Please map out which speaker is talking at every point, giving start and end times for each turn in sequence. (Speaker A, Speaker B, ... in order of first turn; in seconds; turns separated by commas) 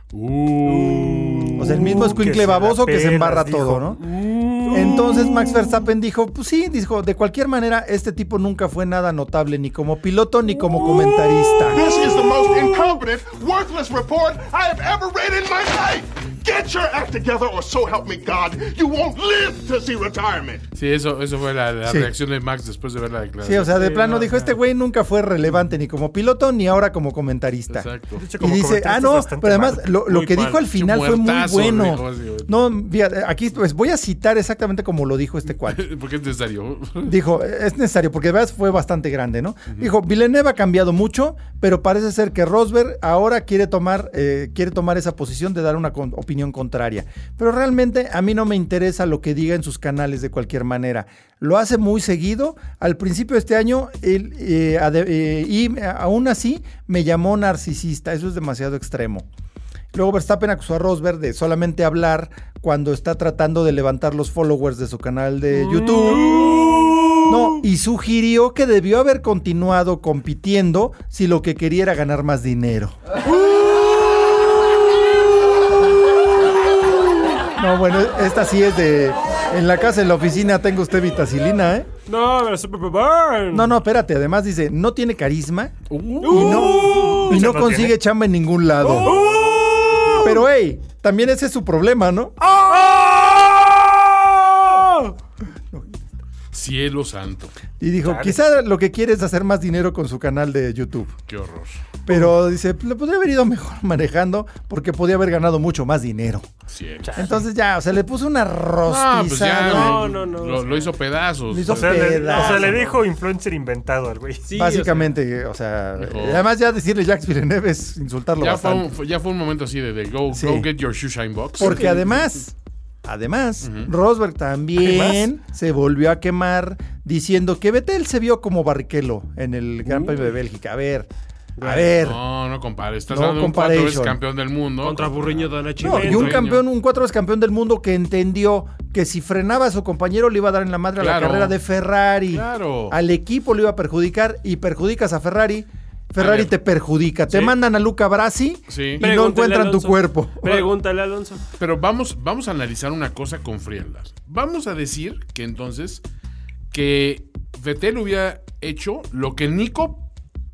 Speaker A: 0.1-2.0, Speaker B: 0.9-4.2, Speaker C: 1.6-4.0, Speaker D: 4.3-5.3, Speaker C: 4.7-11.9, Speaker D: 10.8-11.8, Speaker E: 11.7-20.7, Speaker A: 20.8-23.7, Speaker C: 21.8-22.1, Speaker C: 23.4-35.9, Speaker D: 23.8-24.5, Speaker A: 27.7-28.2, Speaker B: 28.2-29.9, Speaker D: 30.1-30.6, Speaker A: 30.4-32.5, Speaker A: 35.6-37.2, Speaker C: 37.0-59.3, Speaker C: 59.9-66.7, Speaker D: 65.6-67.6, Speaker C: 67.2-73.0, Speaker C: 77.5-81.9, Speaker D: 82.1-83.7, Speaker C: 83.5-85.8, Speaker A: 85.9-87.1, Speaker D: 86.2-87.5, Speaker C: 86.3-89.2, Speaker B: 87.1-88.0, Speaker D: 88.9-90.4, Speaker B: 89.1-89.7, Speaker C: 90.2-92.9, Speaker D: 92.7-93.8, Speaker D: 94.5-95.1, Speaker C: 95.7-96.0, Speaker A: 96.5-97.5, Speaker C: 97.8-101.2, Speaker B: 98.0-98.4, Speaker A: 101.3-102.0, Speaker C: 102.1-106.5, Speaker A: 106.7-107.4, Speaker B: 107.0-107.3, Speaker C: 107.2-110.0, Speaker A: 108.9-112.8, Speaker D: 109.6-111.0, Speaker C: 111.5-112.8, Speaker B: 111.6-114.5, Speaker D: 112.3-113.0, Speaker D: 114.5-115.2, Speaker C: 114.5-118.9, Speaker A: 116.0-116.5, Speaker A: 118.4-122.2, Speaker C: 120.3-120.7, Speaker C: 121.6-131.1, Speaker D: 121.6-122.0, Speaker A: 123.6-123.9, Speaker D: 131.6-131.9, Speaker C: 131.6-132.2, Speaker A: 131.9-136.6, Speaker C: 133.1-134.2, Speaker D: 134.8-136.5, Speaker C: 135.8-150.7, Speaker A: 141.0-141.6, Speaker A: 142.3-143.0, Speaker A: 146.2-146.5, Speaker A: 148.7-149.0, Speaker D: 149.0-151.4, Speaker A: 151.6-156.0, Speaker A: 156.7-160.1